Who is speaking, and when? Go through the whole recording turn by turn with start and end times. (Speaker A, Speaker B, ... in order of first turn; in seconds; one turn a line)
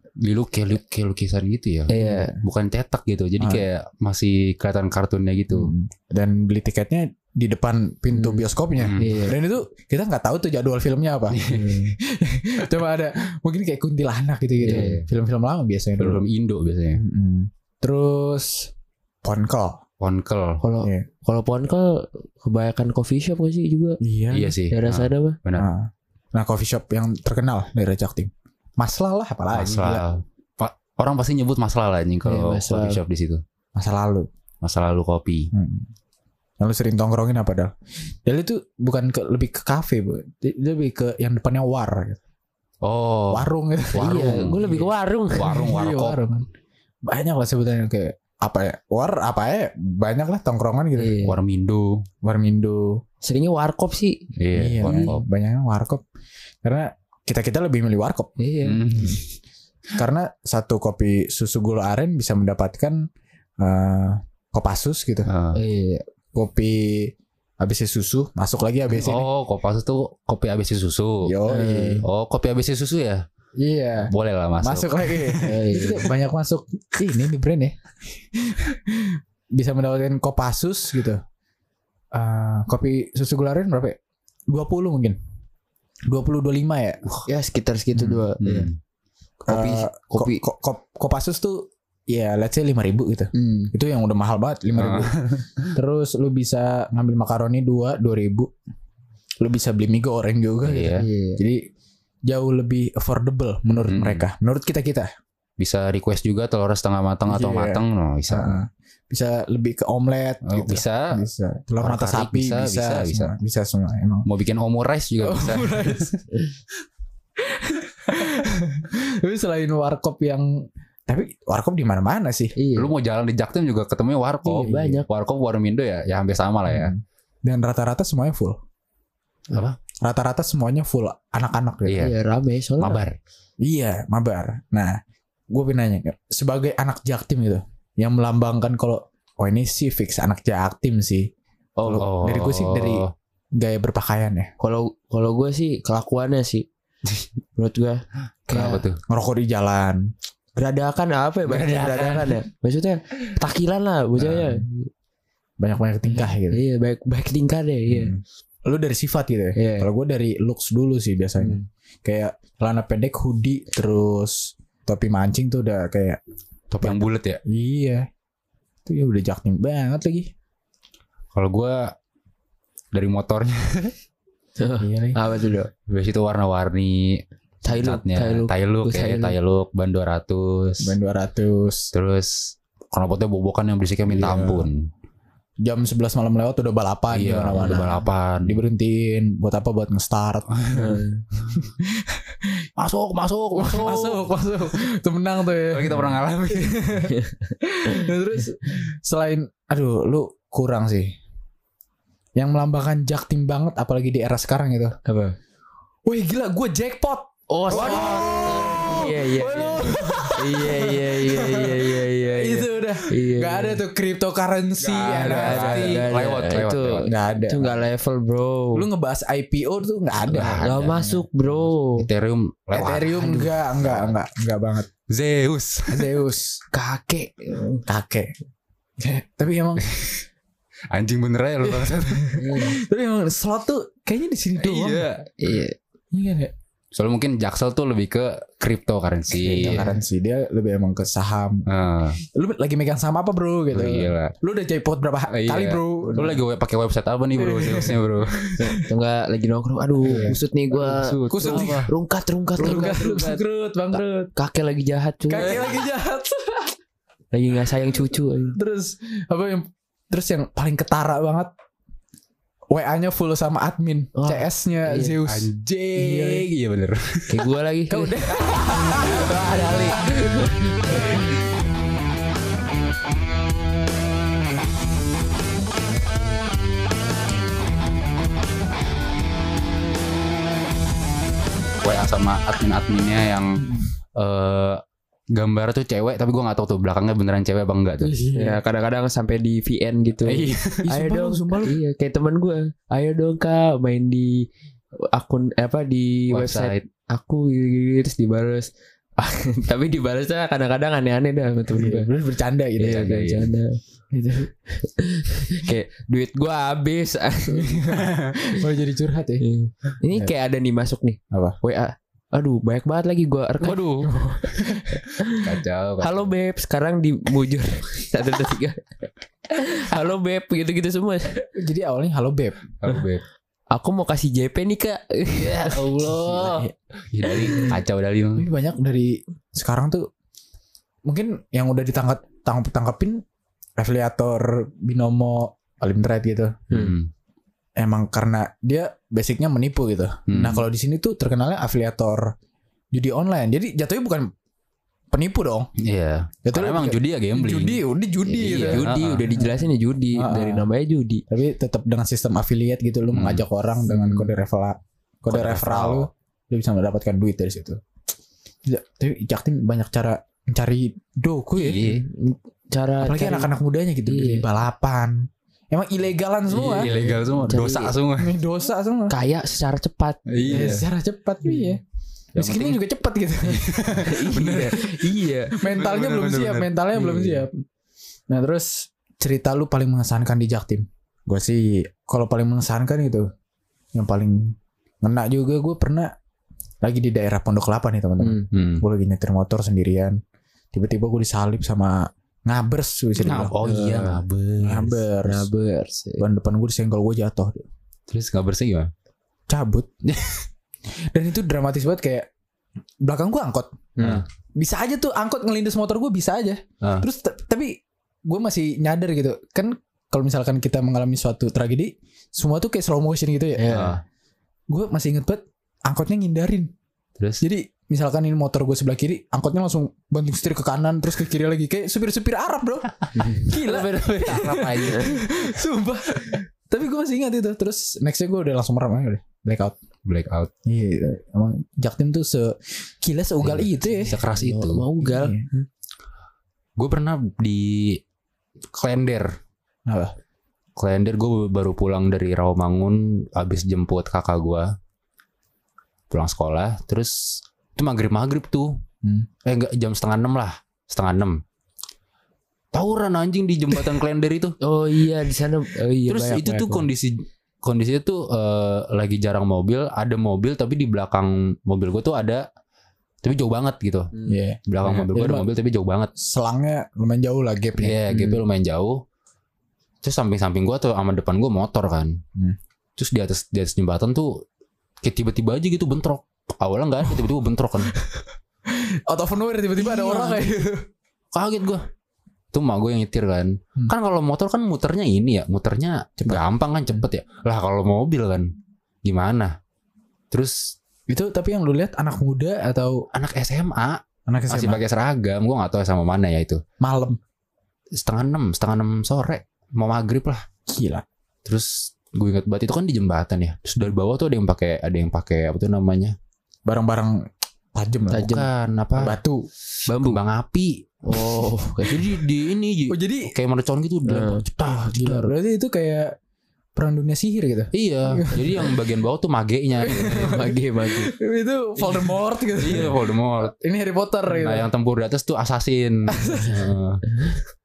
Speaker A: 0.2-5.7
Speaker B: 1.9-2.4
Speaker C: 2.0-2.3
Speaker C: 3.4-3.7
Speaker C: 5.5-16.3
Speaker B: 8.1-8.4
Speaker A: 8.8-9.2
Speaker B: 9.0-9.4
Speaker A: 11.3-11.9
Speaker B: 11.5-11.9
Speaker B: 14.6-14.9
Speaker A: 14.6-15.1
Speaker A: 16.0-17.0
Speaker C: 16.9-18.7
Speaker C: 19.2-19.8
Speaker A: 20.0-20.6
Speaker B: 20.6-24.0
Speaker C: 24.0-24.6
Speaker A: 24.3-25.7
Speaker B: 24.7-25.4
Speaker C: 25.6-30.1
Speaker A: 29.5-33.4
Speaker B: 32.2-33.0
Speaker C: 33.8-34.3
Speaker A: 34.6-35.5
Speaker C: 35.5-35.9
Speaker C: 36.6-37.7
Speaker C: 38.2-42.2
Speaker A: 42.8-46.2
Speaker C: 43.3-44.6
Speaker B: 44.0-45.7
Speaker C: 45.4-46.5
Speaker C: 47.1-51.2
Speaker B: 51.0-51.4
Speaker A: 51.2-52.0
Speaker C: 52.2-53.0
Speaker B: 53.2-54.2
Speaker A: 54.4-55.2
Speaker C: 54.5-56.0
Speaker B: 54.8-55.1
Speaker C: 56.6-58.4
Speaker B: 58.4-58.8
Speaker A: 58.6-59.3
Speaker C: 58.9-59.2
Speaker C: 60.0-63.1
Speaker C: 63.6-65.3
Speaker A: 65.3-65.6
Speaker B: 65.5-66.0
Speaker C: 66.3-69.3
Speaker A: 68.9-71.4
Speaker C: 71.2-72.0
Speaker B: 71.5-72.0
Speaker A: 72.0-73.2
Speaker C: 73.6-81.2
Speaker A: 74.1-75.7
Speaker B: 75.4-76.1
Speaker C: 82.1-84.0
Speaker C: 84.5-85.2
Speaker C: 86.1-87.0
Speaker B: 87.3-88.7
Speaker A: 88.0-88.8
Speaker C: 89.5-95.2
Speaker B: 89.5-90.4
Speaker B: 93.3-93.7
Speaker A: 94.8-95.8
Speaker C: 95.7-98.5
Speaker C: 99.4-101.7
Speaker A: 100.7-101.1
Speaker B: 101.0-101.4
Speaker C: 102.3-105.1
Speaker A: 103.8-104.2
Speaker A: 105.6-108.6
Speaker C: 107.3-114.3
Speaker A: 110.5-111.2
Speaker A: 111.8-113.3
Speaker A: 114.3-116.2
Speaker C: 115.2-116.2
Speaker C: 117.4-122.5
Speaker B: 122.6-122.9
Speaker A: 122.8-127.0
Speaker B: 124.4-125.1
Speaker C: 126.7-128.6
Speaker A: 129.5-129.8
Speaker C: 130.0-132.1
Speaker A: 131.9-132.2
Speaker B: 132.0-133.0
Speaker A: 132.8-133.2
Speaker C: 133.6-135.0
Speaker C: 135.5-141.3
Speaker B: 141.8-142.1
Speaker C: 141.8-143.1
Speaker A: 142.0-143.1
Speaker C: 143.6-144.5
Speaker B: 144.6-146.7
Speaker B: 147.6-148.9
Speaker A: 148.5-149.0
Speaker C: 149.1-150.1
Speaker B: 150.6-154.9
Speaker A: 151.5-152.4
Speaker C: 155.6-156.6
Speaker B: 156.2-158.2
Speaker C: 157.9-166.2
Speaker B: 159.6-159.9
Speaker A: 166.7-167.4
Speaker C: 166.8-168.1
Speaker C: 168.9-170.3
Speaker A: 171.3-171.9
Speaker A: 172.9-173.9
Speaker B: 174.6-175.7
Speaker C: 174.8-175.2
Speaker A: 175.9-181.0
Speaker B: 177.7-179.3
Speaker C: 180.8-181.9
Speaker A: 181.9-184.9
Speaker C: 184.1-184.7
Speaker C: 185.6-191.0
Speaker A: 187.1-188.6
Speaker A: 190.5-190.9
Speaker B: 190.7-191.2
Speaker C: 191.5-192.7
Speaker A: 192.8-194.3
Speaker C: 193.5-201.2
Speaker A: 195.7-196.8
Speaker B: 197.1-197.5
Speaker C: 202.4-205.0
Speaker B: 205.1-205.4
Speaker C: 206.1-216.1
Speaker B: 207.5-213.8
Speaker A: 207.9-208.1
Speaker A: 214.8-217.1
Speaker B: 215.0-218.9
Speaker C: 217.1-217.8
Speaker C: 218.8-220.6
Speaker A: 220.3-224.2
Speaker B: 220.3-222.1
Speaker C: 222.7-224.9
Speaker A: 225.1-226.2
Speaker C: 225.9-226.6
Speaker B: 226.7-227.8
Speaker C: 227.9-228.3
Speaker C: 229.0-229.8
Speaker A: 229.9-230.2
Speaker A: 230.9-232.5
Speaker C: 231.6-235.1
Speaker B: 232.4-232.8
Speaker A: 234.6-235.3
Speaker B: 235.4-235.8
Speaker C: 236.1-236.5
Speaker A: 236.9-239.9
Speaker C: 239.4-241.7
Speaker B: 239.6-239.9
Speaker A: 241.7-242.2
Speaker C: 242.2-246.4
Speaker A: 243.7-244.3
Speaker A: 245.3-248.5
Speaker C: 247.3-248.8
Speaker B: 248.6-253.4
Speaker A: 250.1-251.9
Speaker C: 251.3-251.9
Speaker C: 252.6-254.3
Speaker B: 254.3-255.6
Speaker C: 255.3-256.7
Speaker A: 255.4-255.7
Speaker B: 257.3-258.6
Speaker C: 258.6-261.5
Speaker C: 262.7-266.5
Speaker B: 264.1-265.2
Speaker A: 265.3-267.5
Speaker B: 267.3-268.2
Speaker C: 267.9-270.4
Speaker A: 268.8-270.0
Speaker B: 269.9-271.3
Speaker C: 270.9-271.3
Speaker A: 281.8-283.6
Speaker C: 283.6-283.9
Speaker A: 284.2-284.8
Speaker A: 285.3-288.1
Speaker C: 288.0-288.6
Speaker B: 288.4-294.5
Speaker A: 290.3-290.9
Speaker C: 290.8-291.8
Speaker B: 295.0-302.1
Speaker A: 296.3-296.9
Speaker C: 301.7-303.1
Speaker B: 302.8-303.8
Speaker A: 302.8-303.5
Speaker C: 304.1-304.5
Speaker B: 304.8-307.9
Speaker C: 307.5-309.4
Speaker A: 307.9-308.3
Speaker B: 309.4-313.8
Speaker C: 311.3-311.6
Speaker A: 313.6-314.1
Speaker C: 314.0-315.0
Speaker B: 314.9-318.9
Speaker A: 315.2-316.3
Speaker B: 319.5-321.4
Speaker C: 321.6-322.7
Speaker A: 322.8-323.2
Speaker B: 323.7-326.5
Speaker A: 325.4-328.5
Speaker C: 326.3-326.7
Speaker B: 327.3-327.8
Speaker C: 328.4-330.1
Speaker C: 331.1-333.2
Speaker C: 333.8-336.7
Speaker B: 336.7-336.9
Speaker A: 336.7-337.1
Speaker C: 337.8-342.3
Speaker A: 340.3-340.7
Speaker C: 342.9-344.3
Speaker C: 345.1-345.7
Speaker A: 345.8-347.8
Speaker C: 346.4-350.7
Speaker B: 348.3-351.2
Speaker A: 348.4-349.3
Speaker C: 351.3-357.8
Speaker A: 353.1-353.4
Speaker A: 355.3-356.1
Speaker C: 358.6-361.9
Speaker A: 361.6-362.1
Speaker B: 361.8-363.5
Speaker C: 363.0-366.9
Speaker B: 364.1-364.5
Speaker A: 366.5-368.4
Speaker B: 366.6-367.9
Speaker C: 368.2-369.1
Speaker B: 369.1-370.8
Speaker A: 370.3-370.9
Speaker C: 370.5-371.8
Speaker B: 371.4-371.8
Speaker A: 372.4-372.8
Speaker C: 372.4-374.8
Speaker A: 373.4-374.9
Speaker B: 374.0-375.6
Speaker C: 375.5-377.6
Speaker A: 375.6-376.7
Speaker B: 376.9-377.4
Speaker C: 378.3-383.3
Speaker C: 383.9-386.1
Speaker C: 386.8-390.2
Speaker B: 388.2-388.5
Speaker A: 388.5-388.9
Speaker C: 390.7-393.6
Speaker A: 393.2-395.0
Speaker B: 393.6-394.2
Speaker C: 394.6-395.5
Speaker B: 395.2-396.2
Speaker C: 396.2-397.6
Speaker A: 398.1-398.9
Speaker C: 399.5-400.0
Speaker C: 401.1-402.3
Speaker C: 403.0-413.8
Speaker A: 404.0-404.2
Speaker A: 406.8-407.1
Speaker B: 413.6-414.0
Speaker A: 413.7-414.0
Speaker C: 414.7-416.7
Speaker C: 417.4-429.8
Speaker B: 423.1-423.5
Speaker A: 423.4-425.3
Speaker A: 430.1-430.5
Speaker C: 430.7-434.2
Speaker A: 434.1-434.9
Speaker B: 434.1-435.7
Speaker C: 435.0-435.5
Speaker A: 436.8-438.0
Speaker A: 438.7-439.4
Speaker C: 439.9-440.1
Speaker A: 440.8-444.7
Speaker A: 446.1-448.8
Speaker A: 449.4-451.4
Speaker A: 452.7-454.6
Speaker B: 454.6-456.6
Speaker A: 456.1-462.4
Speaker C: 456.4-456.9
Speaker A: 463.2-464.1
Speaker C: 464.3-465.5
Speaker A: 464.7-466.1
Speaker C: 466.2-468.2
Speaker A: 467.8-469.0
Speaker A: 470.0-472.2
Speaker A: 473.0-474.4
Speaker A: 475.0-478.0
Speaker C: 478.7-480.9
Speaker A: 479.9-480.4
Speaker A: 481.3-481.8
Speaker A: 482.5-488.5
Speaker C: 486.2-487.1
Speaker A: 489.0-489.5
Speaker A: 490.3-490.7
Speaker C: 491.1-493.1
Speaker A: 493.1-496.6
Speaker C: 494.3-494.8
Speaker C: 496.8-497.2
Speaker A: 498.0-500.4
Speaker C: 500.7-501.1
Speaker A: 501.5-506.1
Speaker C: 506.7-508.4
Speaker B: 508.1-508.5
Speaker A: 508.1-509.2
Speaker C: 509.0-509.5
Speaker B: 509.9-510.2
Speaker A: 509.9-514.9
Speaker B: 511.1-512.2
Speaker C: 512.9-513.4
Speaker B: 514.1-515.2
Speaker C: 514.6-516.2
Speaker C: 516.8-518.8
Speaker A: 517.7-520.5
Speaker C: 519.8-524.7
Speaker B: 520.1-521.1
Speaker A: 522.5-523.5
Speaker A: 524.3-527.4
Speaker C: 526.1-526.7